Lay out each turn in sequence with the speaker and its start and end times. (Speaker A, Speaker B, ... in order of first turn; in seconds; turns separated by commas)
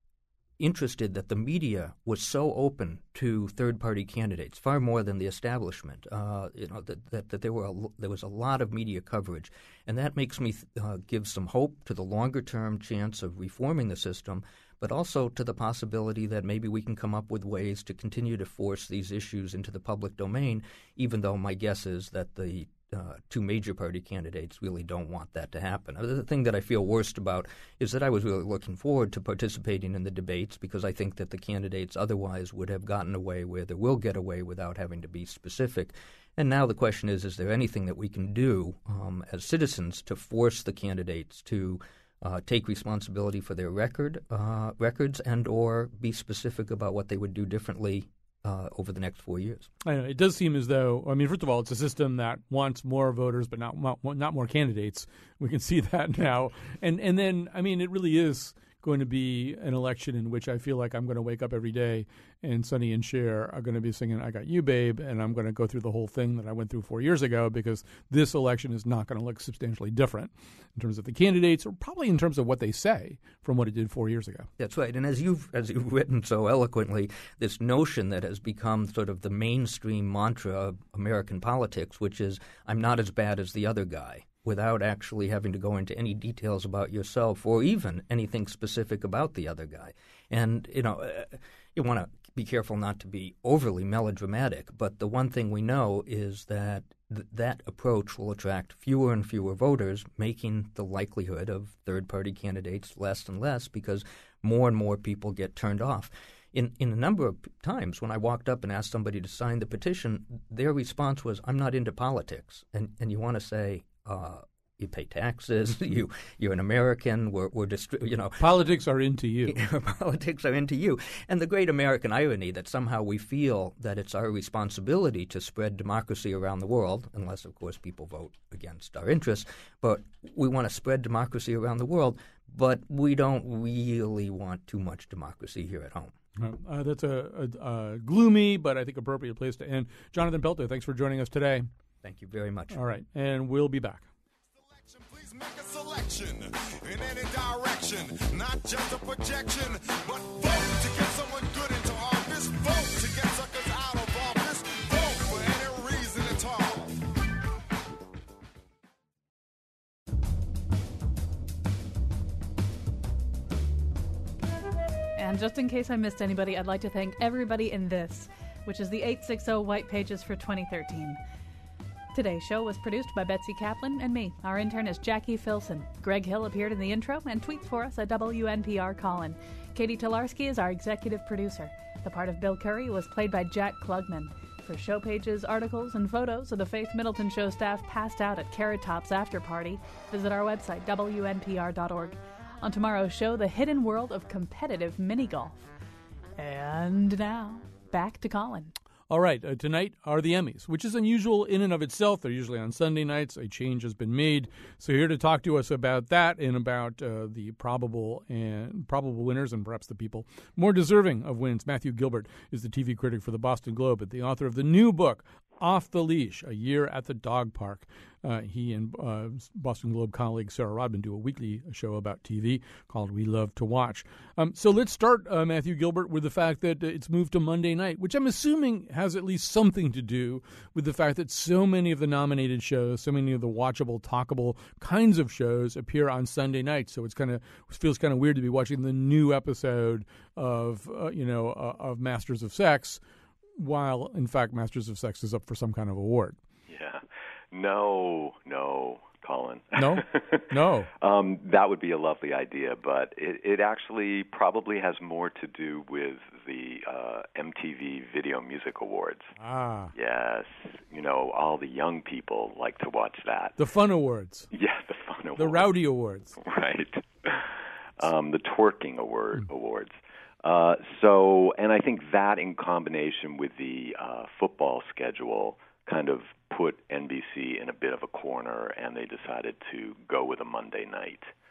Speaker A: 0.6-49.7, Speaker B: 49.9-74.5, Speaker A: 74.6-118.4, Speaker B: 118.4-119.6, Speaker A: 119.5-136.2, Speaker B: 136.4-141.7, Speaker A: 142.0-142.8, Speaker B: 142.7-144.1, Speaker C: 144.6-157.0, Speaker D: 165.2-171.2, Speaker D: 172.1-195.7, Speaker D: 196.4-198.7, Speaker B: 199.1-243.0, Speaker B: 243.6-246.4, Speaker E: 246.7-250.5, Speaker B: 249.8-250.9, Speaker E: 251.0-259.3, Speaker B: 259.4-259.9, Speaker E: 259.9-263.6, Speaker B: 263.6-264.5, Speaker E: 264.5-265.7, Speaker B: 265.4-266.4, Speaker E: 266.4-281.3